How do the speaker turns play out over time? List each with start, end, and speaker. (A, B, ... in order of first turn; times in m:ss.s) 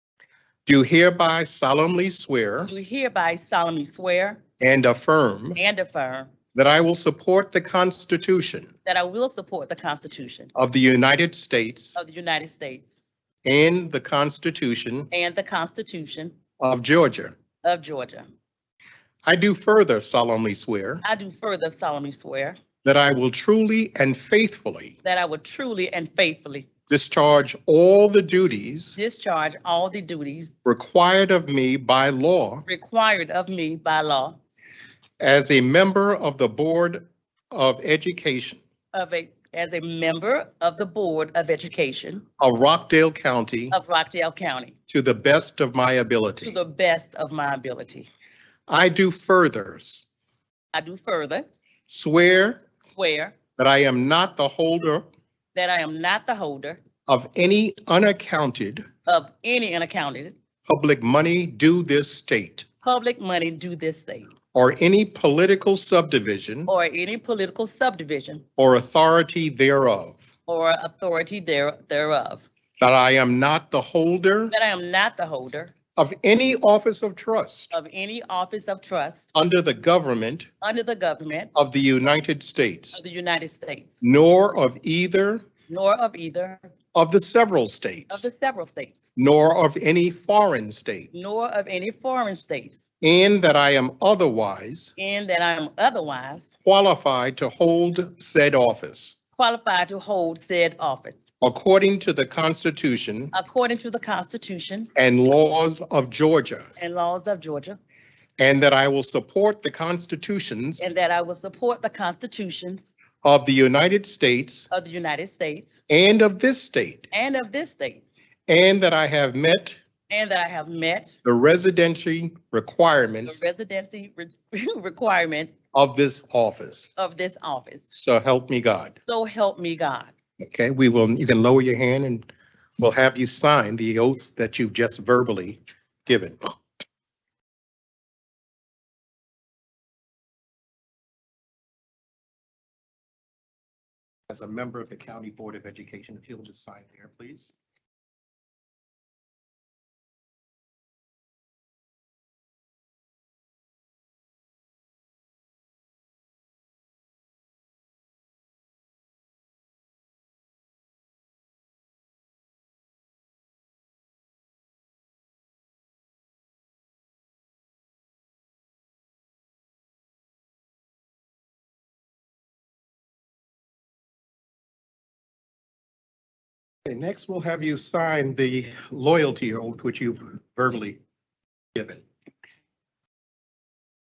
0:00.6-0:02.7 A
0:02.7-0:04.4 B
0:04.6-0:05.6 A
0:05.6-0:06.3 B
0:06.5-0:08.7 A
0:08.8-0:10.5 B
0:10.5-0:12.0 A
0:12.0-0:13.0 B
0:13.4-0:15.1 A
0:15.1-0:16.3 B
0:16.6-0:17.3 A
0:17.6-0:18.3 B
0:19.2-0:21.0 A
0:21.0-0:22.6 B
0:22.8-0:24.9 A
0:25.0-0:26.7 B
0:26.9-0:29.0 A
0:29.0-0:30.5 B
0:30.6-0:32.6 A
0:32.7-0:34.4 B
0:35.2-0:38.6 A
0:38.9-0:42.2 B
0:42.4-0:43.8 A
0:43.7-0:44.7 B
0:44.9-0:46.6 A
0:46.4-0:48.1 B
0:48.7-0:50.0 A
0:50.7-0:51.4 B
0:51.9-0:52.6 A
0:52.8-0:53.4 B
0:53.6-0:55.0 A
0:55.5-0:56.8 B
0:57.1-0:58.8 A
0:59.0-1:00.4 B
1:00.7-1:02.6 A
1:02.8-1:04.3 B
1:04.5-1:06.7 A
1:06.7-1:08.4 B
1:08.6-1:10.2 A
1:10.5-1:12.4 B
1:12.8-1:14.5 A
1:14.5-1:15.7 B
1:16.0-1:17.7 A
1:17.7-1:19.3 B
1:19.3-1:20.5 A
1:20.6-1:21.5 B
1:21.5-1:23.0 A
1:22.9-1:23.9 B
1:24.0-1:25.4 A
1:25.7-1:26.6 B
1:26.9-1:28.3 A
1:28.1-1:29.0 B
1:29.2-1:31.1 A
1:31.1-1:32.8 B
1:33.0-1:34.9 A
1:35.0-1:36.5 B
1:36.6-1:39.2 A
1:39.4-1:41.2 B
1:41.4-1:43.3 A
1:43.3-1:44.9 B
1:45.0-1:46.7 A
1:46.8-1:47.8 B
1:48.4-1:50.9 A
1:50.8-1:52.9 B
1:53.2-1:54.7 A
1:54.7-1:55.8 B
1:55.9-1:57.1 A
1:57.1-1:58.0 B
1:58.5-1:59.8 A
2:00.1-2:01.2 B
2:01.2-2:03.4 A
2:03.2-2:05.5 B
2:05.7-2:06.9 A
2:07.0-2:07.8 B
2:07.9-2:08.9 A
2:08.9-2:10.1 B
2:10.4-2:12.3 A
2:12.8-2:16.4 A
2:24.3-2:27.5 A
2:56.8-3:01.0 A
3:01.7-3:02.0 A